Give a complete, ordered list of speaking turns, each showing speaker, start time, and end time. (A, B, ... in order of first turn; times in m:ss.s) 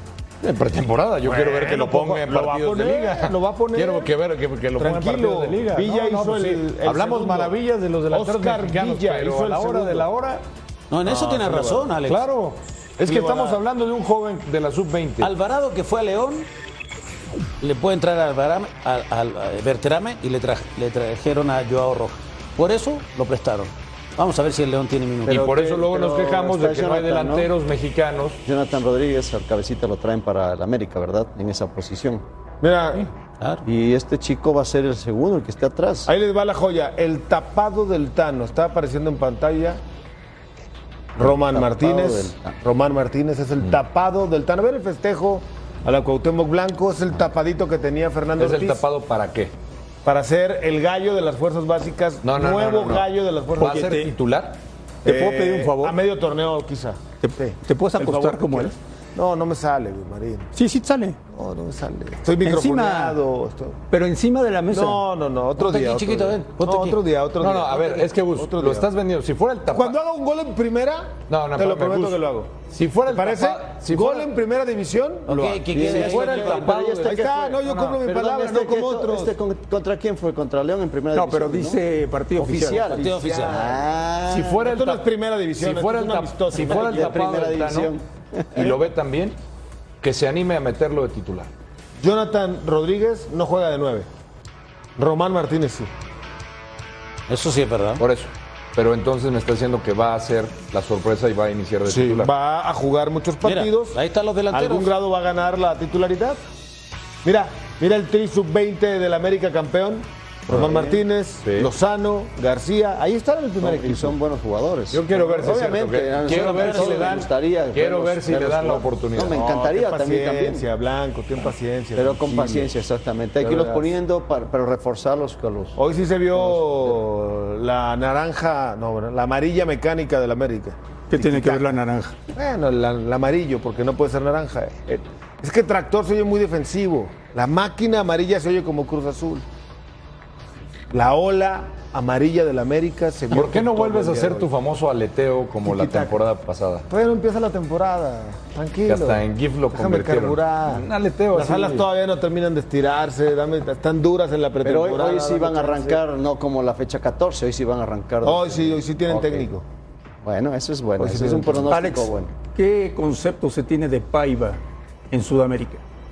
0:00.4-0:10.4 A
0:01.2-0:04.1 B
0:04.8-0:07.6 B
0:08.1-0:10.1 B
0:10.9-0:12.2 C
0:11.0-0:11.9 B
0:12.0-0:15.3 A
0:13.0-0:13.6 B
0:15.2-0:16.5 C
0:17.6-0:25.4 C
0:25.2-0:27.5 D
0:25.3-0:28.4 A
0:28.4-0:32.2 D
0:32.6-0:33.1 B
0:33.4-0:33.6 C
0:33.6-0:36.1 D
0:36.0-0:39.8 B
0:41.2-0:48.8 B
0:41.2-0:42.6 D
0:48.4-0:49.5 A
0:50.0-0:54.0 B
0:52.2-0:54.6 A
0:53.6-0:54.1 E
0:55.0-0:56.0 E
0:55.0-1:00.5 B
0:57.2-0:58.7 E
1:00.5-1:01.2 E
1:01.3-1:03.8 B
1:02.4-1:03.2 E
1:03.9-1:05.0 E
1:04.7-1:08.9 B
1:05.6-1:07.0 C
1:07.4-1:10.0 A
1:09.7-1:12.5 B
1:11.3-1:14.3 A
1:13.1-1:19.3 B
1:15.2-1:16.7 C
1:15.7-1:21.8 D
1:15.8-1:18.0 A
1:21.1-1:22.9 E
1:22.3-1:24.7 D
1:22.9-1:23.6 C
1:23.0-1:23.8 B
1:24.3-1:27.9 A
1:24.6-1:27.2 B
1:26.5-1:28.8 D
1:28.5-1:29.4 A
1:30.0-1:31.5 A
1:32.0-1:34.1 B
1:35.0-1:35.9 B
1:37.3-1:38.0 C
1:38.0-1:42.3 A
1:41.9-1:44.0 B
1:43.4-1:44.9 C
1:44.5-1:46.4 B
1:47.2-1:54.2 B
1:50.5-1:51.0 D
1:51.4-1:51.7 A
1:53.6-2:00.7 D
1:54.9-1:59.4 A
1:56.3-1:56.9 C
1:59.2-2:02.7 B
2:01.9-2:05.8 D
2:03.4-2:03.9 B
2:05.8-2:11.7 B
2:06.3-2:06.9 D
2:11.1-2:12.1 E
2:12.3-2:19.4 B
2:20.9-2:24.5 B
2:23.3-2:26.8 A
2:25.6-2:26.2 B
2:26.9-2:36.0 B
2:28.9-2:31.9 A
2:34.6-2:39.4 D
2:38.2-2:39.6 B
2:40.2-2:42.3 D
2:41.0-2:41.7 B
2:41.7-2:44.6 E
2:45.1-2:45.8 E